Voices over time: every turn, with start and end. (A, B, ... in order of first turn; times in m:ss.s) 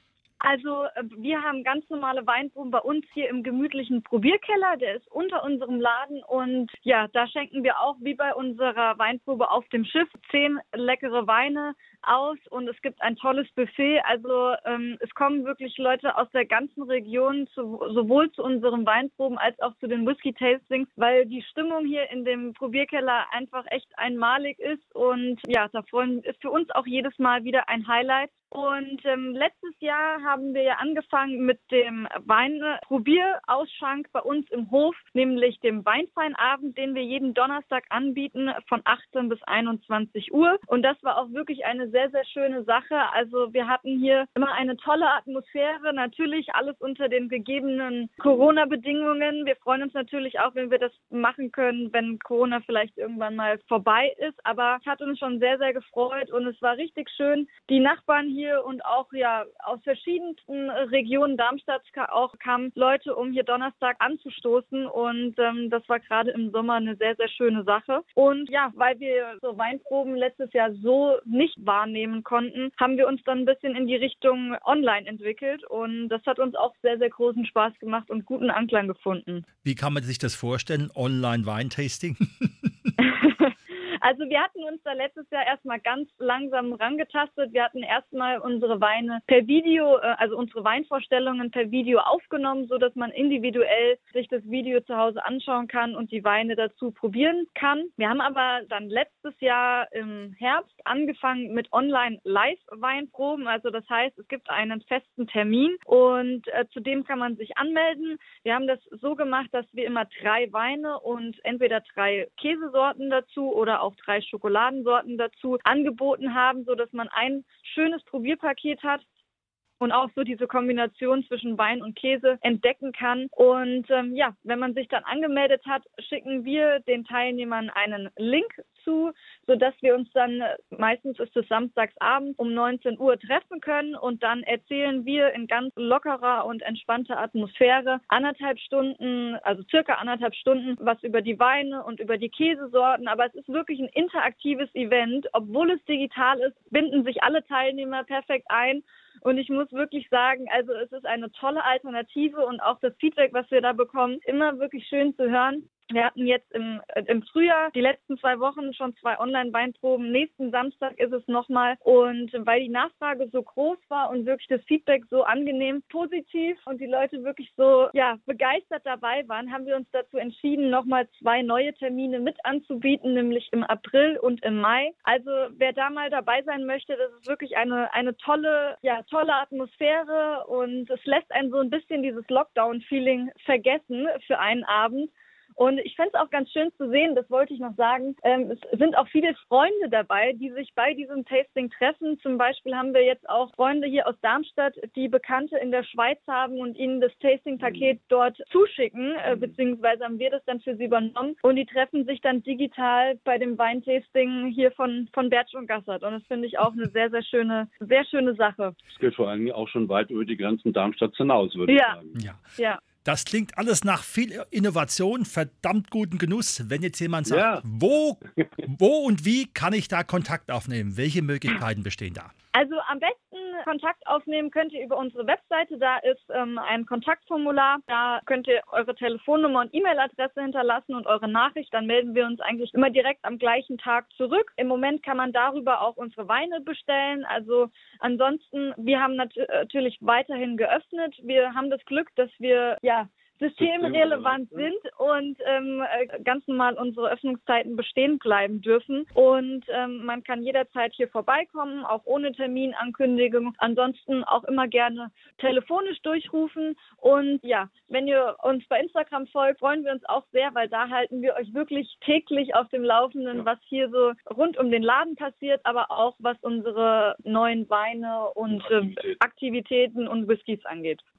0:00.4-1:19.4 A
1:19.6-1:22.9 B
1:23.0-1:59.0 A
1:59.8-3:28.8 A
3:28.9-3:32.2 C
3:31.7-3:32.0 A
3:32.1-3:32.4 B
3:32.6-3:32.8 A
3:33.0-3:42.3 B
3:37.2-3:37.6 C
3:42.5-4:31.0 A
4:03.6-4:04.7 C
4:28.5-4:29.2 C